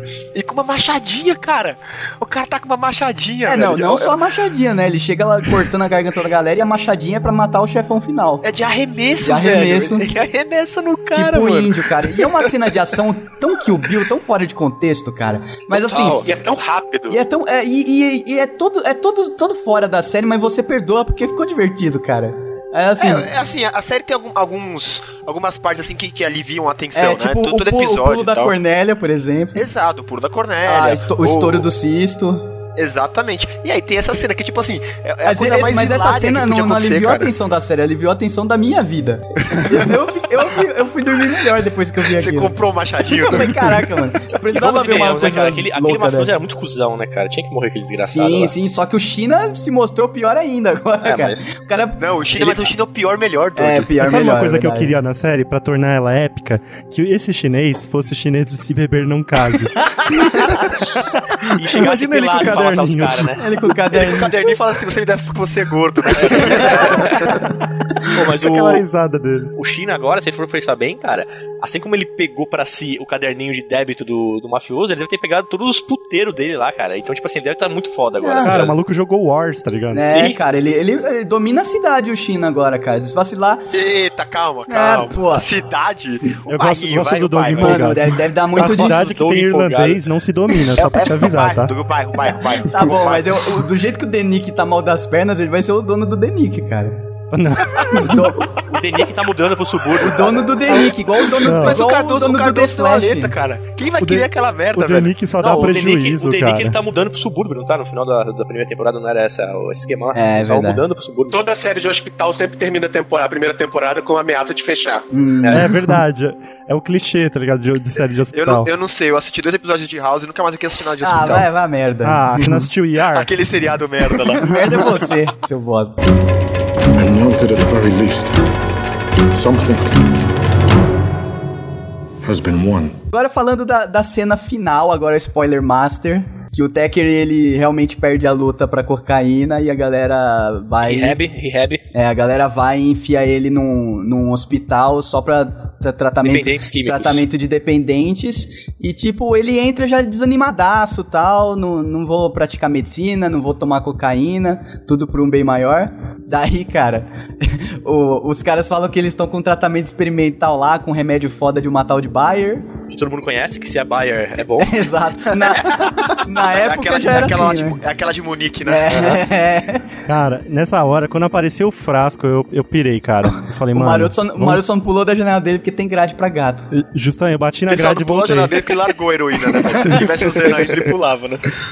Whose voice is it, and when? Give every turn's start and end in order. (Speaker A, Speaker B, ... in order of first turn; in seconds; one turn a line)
Speaker A: 0.3-4.2
Speaker B: 3.5-8.5
Speaker A: 8.4-12.7
Speaker B: 9.2-10.1
Speaker B: 11.1-16.2
Speaker C: 15.8-16.4
Speaker D: 15.9-17.2
Speaker B: 17.1-23.3
Speaker A: 23.0-28.6
Speaker B: 26.9-29.6
Speaker A: 29.6-31.7
Speaker B: 30.6-32.4
Speaker A: 32.8-37.3
Speaker B: 35.2-46.3
Speaker A: 42.1-43.8
Speaker C: 44.5-48.5
Speaker B: 48.0-52.0
Speaker C: 51.0-51.4
Speaker A: 52.0-54.0
Speaker C: 52.3-52.7
Speaker B: 53.6-54.9
Speaker E: 54.0-63.5
Speaker B: 60.1-60.5
Speaker C: 61.5-63.4
Speaker B: 63.4-64.4
Speaker A: 63.9-67.5
Speaker C: 66.2-67.3
Speaker C: 68.1-68.9
Speaker E: 68.4-69.5
Speaker C: 69.6-78.8
Speaker B: 78.2-78.5
Speaker E: 78.4-80.1
Speaker B: 79.9-83.7
Speaker C: 80.1-80.4
Speaker A: 83.7-87.9
Speaker B: 84.7-85.5
Speaker E: 86.5-91.7
Speaker B: 87.6-89.1
Speaker C: 88.6-90.0
Speaker A: 90.8-93.6
Speaker B: 92.6-97.0
Speaker E: 97.3-98.3
Speaker B: 98.0-98.5
Speaker C: 98.6-100.6
Speaker B: 100.0-103.3
Speaker A: 100.7-105.1
Speaker E: 101.5-101.8
Speaker E: 104.0-106.8
Speaker C: 105.4-111.4
Speaker B: 110.1-110.8
Speaker D: 111.3-115.0
Speaker B: 115.1-115.7
Speaker E: 115.5-118.7
Speaker A: 118.3-121.5
Speaker B: 121.0-122.2
Speaker E: 122.0-123.3
Speaker A: 123.1-125.1
Speaker B: 124.2-126.0
Speaker F: 126.9-128.4
Speaker F: 129.3-129.9
Speaker F: 132.2-133.0
Speaker B: 133.1-141.2
Speaker C: 140.8-141.8
Speaker B: 141.9-162.7
Speaker C: 146.2-147.2
Speaker C: 162.9-164.9
Speaker B: 164.6-167.8
Speaker A: 166.2-169.2
Speaker B: 168.7-169.9
Speaker E: 170.1-174.6
Speaker B: 173.7-176.7
Speaker E: 176.7-178.7
Speaker A: 177.7-181.4
Speaker B: 179.6-180.0